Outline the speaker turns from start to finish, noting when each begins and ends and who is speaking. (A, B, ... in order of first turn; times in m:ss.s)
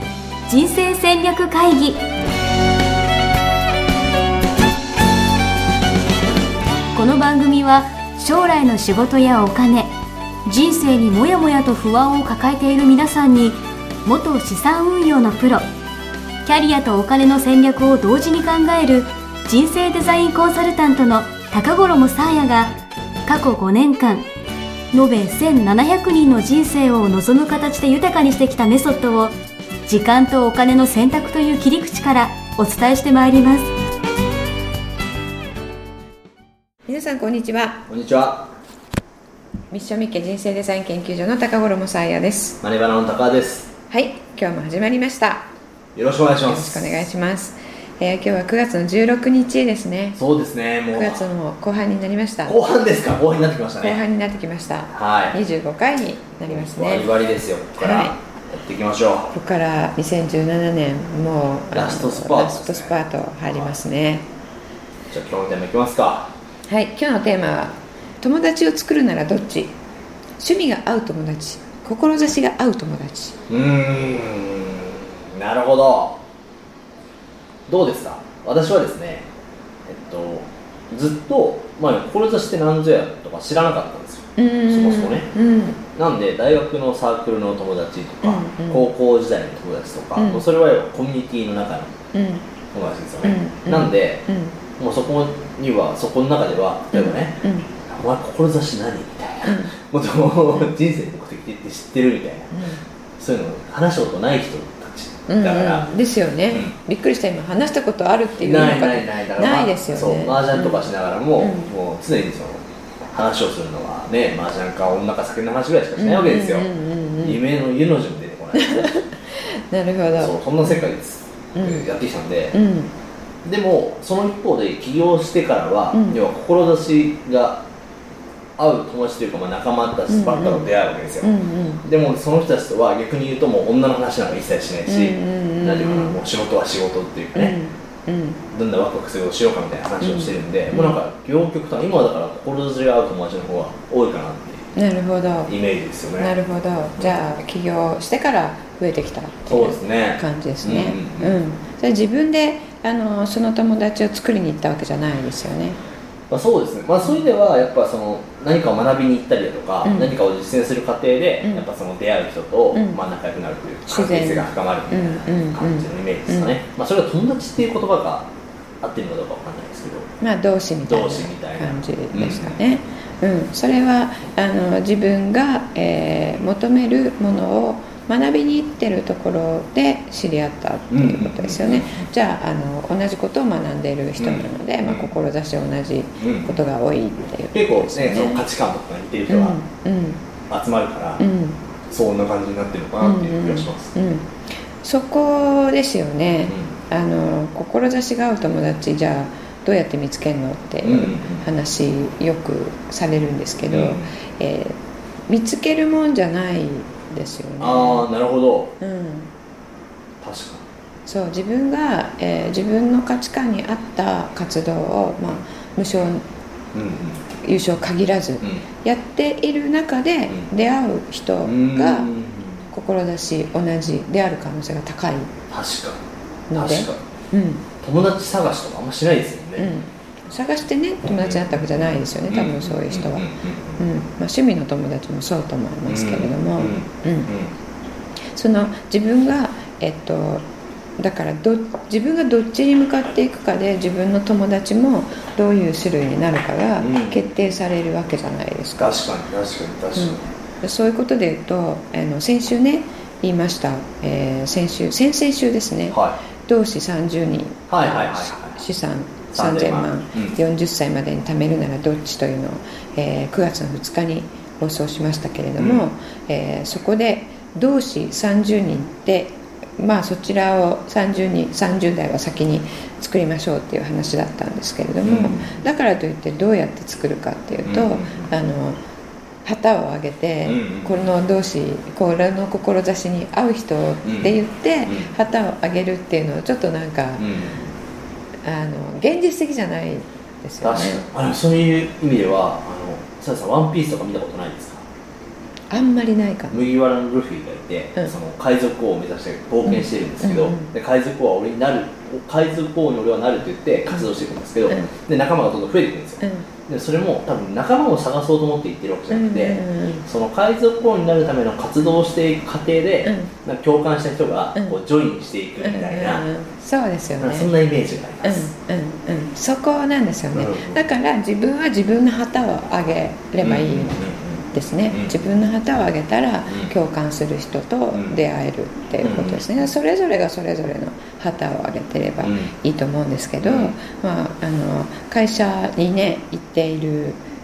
0:00.5-0:02.0 A
0:06.9-0:09.9 A
0:10.5-0:15.7 A
0:16.4-0:22.8 A
0:23.3-0:24.3 A
0:24.9-0:33.7 A
0:36.9-0:37.8 B
0:37.9-0:38.5 C
0:39.7-0:42.6 B
0:42.6-0:43.7 C
0:43.9-0:45.5 B
0:46.0-0:47.1 C
0:46.4-0:50.2 B
0:50.2-0:51.2 C
0:50.9-0:52.6 B
0:52.4-0:54.0 C
0:53.8-0:57.1 B
0:54.9-0:55.4 C
0:56.4-0:59.3 C
0:57.8-0:58.2 B
0:59.3-1:04.3 B
1:01.7-1:03.0 C
1:05.1-1:06.3 C
1:06.7-1:09.8 B
1:10.4-1:13.4 B
1:13.5-1:16.2 C
1:17.7-1:19.3 C
1:19.9-1:25.3 C
1:24.4-1:25.8 B
1:25.9-1:31.9 C
1:28.2-1:28.9 B
1:30.2-1:30.4 B
1:32.1-1:32.4 B
1:32.7-1:34.2 C
1:33.2-1:34.6 B
1:34.8-1:42.6 C
1:36.9-1:37.7 B
1:39.4-1:39.8 B
1:40.5-1:40.8 B
1:42.5-1:42.8 B
1:43.2-1:45.9 C
1:45.3-1:50.8 B
1:46.5-1:46.8 C
1:48.4-1:59.0 C
1:51.4-1:51.7 B
1:56.0-1:57.4 B
1:58.5-2:00.9 B
2:00.2-2:02.6 C
2:01.6-2:01.9 B
2:02.5-2:02.9 B
2:03.4-2:07.6 C
2:05.9-2:06.2 B
2:08.6-2:17.6 C
2:10.1-2:10.7 B
2:11.2-2:11.8 B
2:14.9-2:16.2 B
2:17.4-2:18.4 B
2:18.5-2:24.7 C
2:20.0-2:21.0 B
2:24.8-2:25.5 B
2:25.5-2:26.4 C
2:26.2-2:35.8 B
2:29.5-2:31.4 C
2:36.3-2:50.1 C
2:39.8-2:40.2 B
2:42.7-2:43.0 B
2:43.9-2:46.6 B
2:50.2-3:08.4 B
2:50.8-2:52.6 C
3:00.9-3:02.1 C
3:04.2-3:05.1 C
3:06.2-3:06.6 C
3:07.5-3:09.6 C
3:09.3-3:10.2 B
3:10.5-3:11.2 C
3:11.2-3:11.6 B
3:11.9-3:13.9 C
3:13.0-3:14.3 B
3:14.8-3:28.1 B
3:16.5-3:16.8 C
3:20.8-3:21.5 C
3:23.7-3:24.1 C
3:27.6-3:28.7 C
3:28.8-3:29.3 B
3:30.2-3:30.6 C
3:31.1-3:36.2 B
3:36.7-3:37.2 C
3:37.4-3:42.1 B
3:41.4-3:42.7 C
3:42.7-3:45.3 B
3:45.5-3:46.0 C
3:46.5-3:47.7 B
3:46.5-3:47.0 C
3:47.8-3:49.7 C
3:49.6-3:57.3 B
3:51.1-3:53.8 C
3:55.9-3:57.5 C
3:58.4-4:00.4 B
4:01.0-4:09.0 B
4:06.8-4:07.2 C
4:08.8-4:10.2 C
4:10.0-4:38.8 B
4:15.9-4:16.2 C
4:17.7-4:18.6 C
4:19.3-4:20.4 C
4:25.6-4:25.9 C
4:35.0-4:35.6 C
4:37.6-4:38.3 C
4:39.4-4:47.2 B
4:40.4-4:41.1 C
4:44.0-4:45.1 C
4:47.2-4:47.7 C
4:48.4-4:51.1 B
4:50.6-4:54.8 C
4:55.7-4:56.6 B
4:56.5-5:16.3 C
4:59.6-5:00.7 B
5:06.2-5:06.5 B
5:09.1-5:10.1 B
5:13.0-5:13.3 B
5:15.6-5:17.5 B
5:17.2-5:18.5 C
5:18.2-5:24.0 B
5:20.3-5:20.9 C
5:23.4-5:25.2 C
5:24.5-5:37.2 B
5:26.5-5:26.7 C
5:27.9-5:28.2 C
5:29.0-5:29.4 C
5:32.2-5:32.5 C
5:33.4-5:33.8 C